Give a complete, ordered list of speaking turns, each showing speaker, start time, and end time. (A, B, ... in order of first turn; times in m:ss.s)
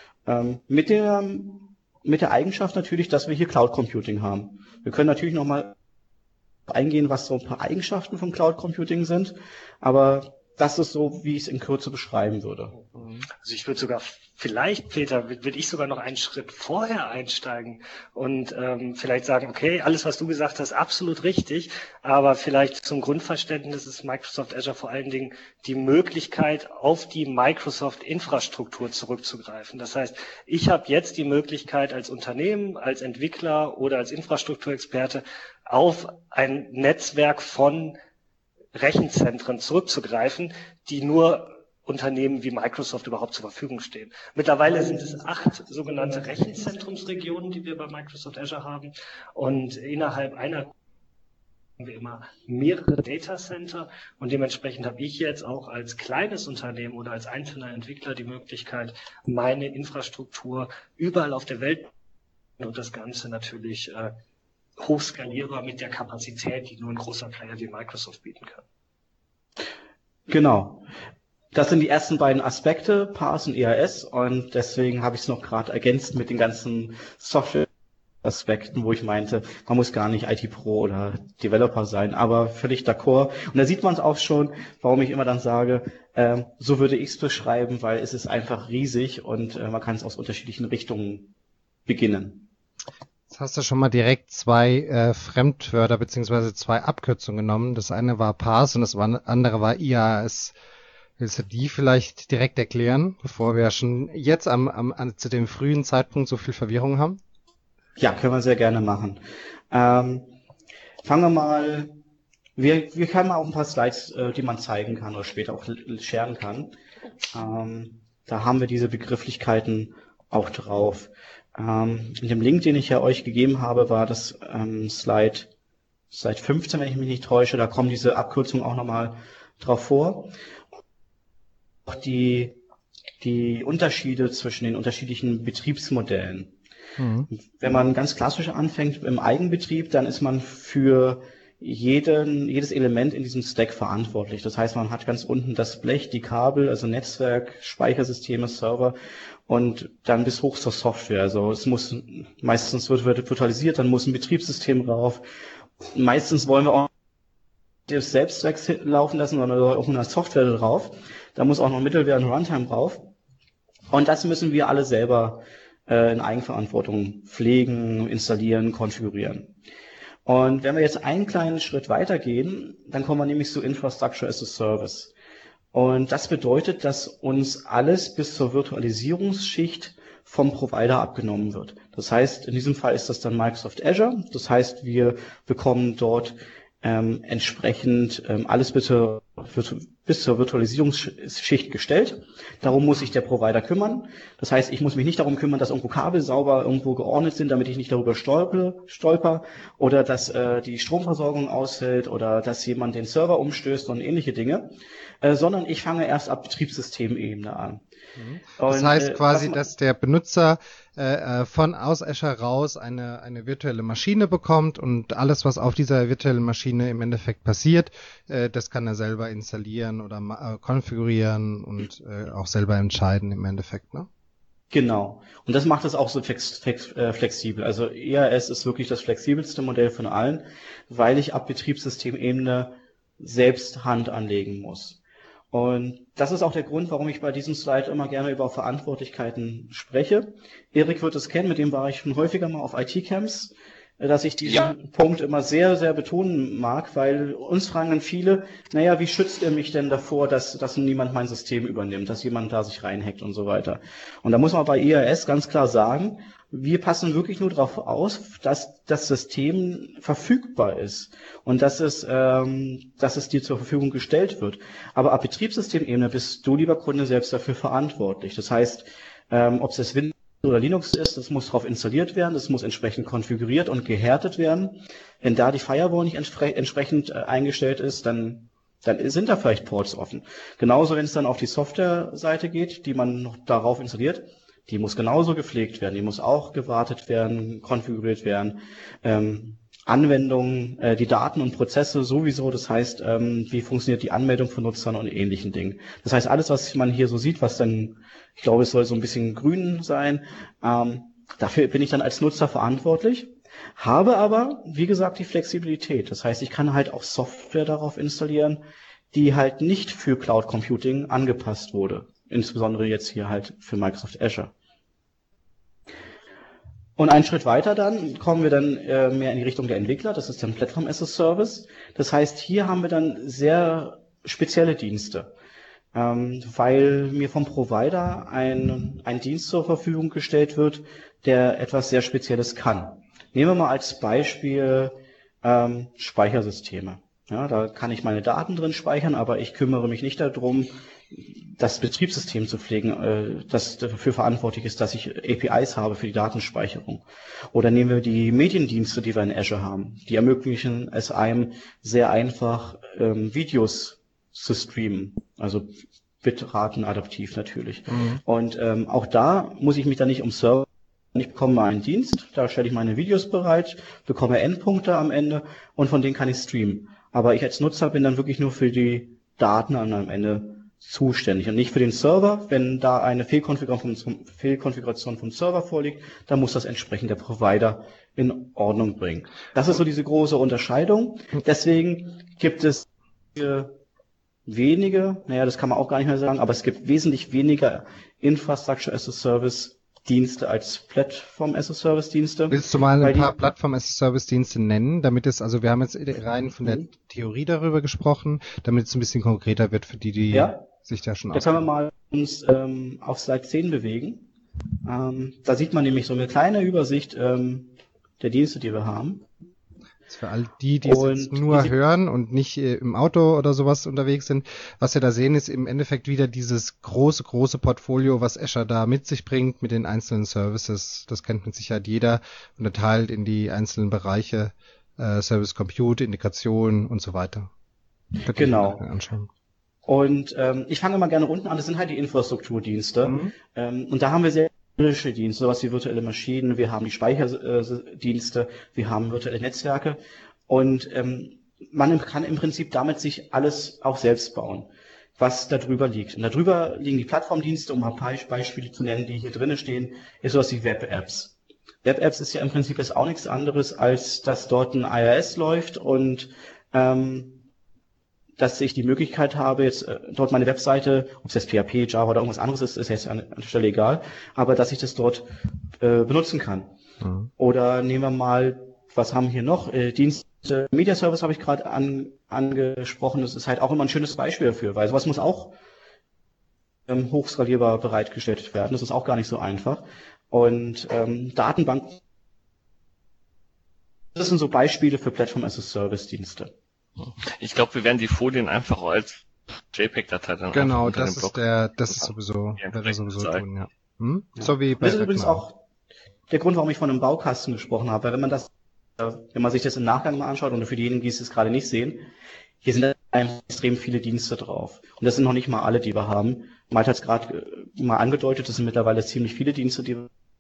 0:00.3-0:05.8 A
0:06.7-0:12.7 A
0:13.0-0:13.3 B
0:13.4-0:38.0 C
0:38.7-0:50.7 C
0:51.8-1:01.9 C
1:02.6-1:04.1 C
1:04.8-1:08.6 C
1:10.3-1:10.9 A
1:11.5-1:17.7 A
1:18.2-1:31.3 A
1:31.9-1:32.5 A
1:33.3-1:40.5 B
1:41.2-1:47.2 B
1:48.0-1:50.3 A
1:51.0-1:52.0 A
1:52.6-1:56.7 A
1:57.3-2:05.5 A
2:06.1-2:10.3 A
2:11.9-2:12.6 A
2:13.2-2:16.5 A
2:17.0-2:17.3 B
2:17.4-2:29.0 A
2:29.5-2:35.2 A
2:35.9-2:36.9 A
2:37.9-2:43.1 A
2:43.9-2:49.5 A
2:50.3-2:55.1 A
2:55.7-3:27.8 A
3:28.2-3:44.1 B
3:28.6-3:29.6 A
3:44.7-3:55.0 A
3:55.5-5:08.6 A
5:09.1-5:14.5 A
5:17.0-5:25.3 A
5:25.9-5:55.7 A
5:56.2-6:23.8 A
5:57.9-5:58.2 B
6:24.5-6:33.3 A
6:32.5-6:41.6 B
6:40.3-6:40.6 A
6:41.3-6:44.3 A
6:44.8-6:49.3 A
6:50.1-7:07.5 B
6:50.8-6:51.8 A
7:08.2-7:09.3 B
7:08.3-7:08.8 A
7:09.9-7:37.4 A
7:13.0-7:13.3 B
7:38.4-7:45.3 A
7:45.8-7:46.7 A
7:47.0-7:47.3 B
7:47.4-7:55.6 A
7:56.9-8:02.0 A
8:04.2-8:06.5 A
8:07.0-8:13.4 D
8:10.5-8:15.4 B
8:14.4-8:15.6 A
8:16.3-8:22.1 A
8:22.6-8:30.1 A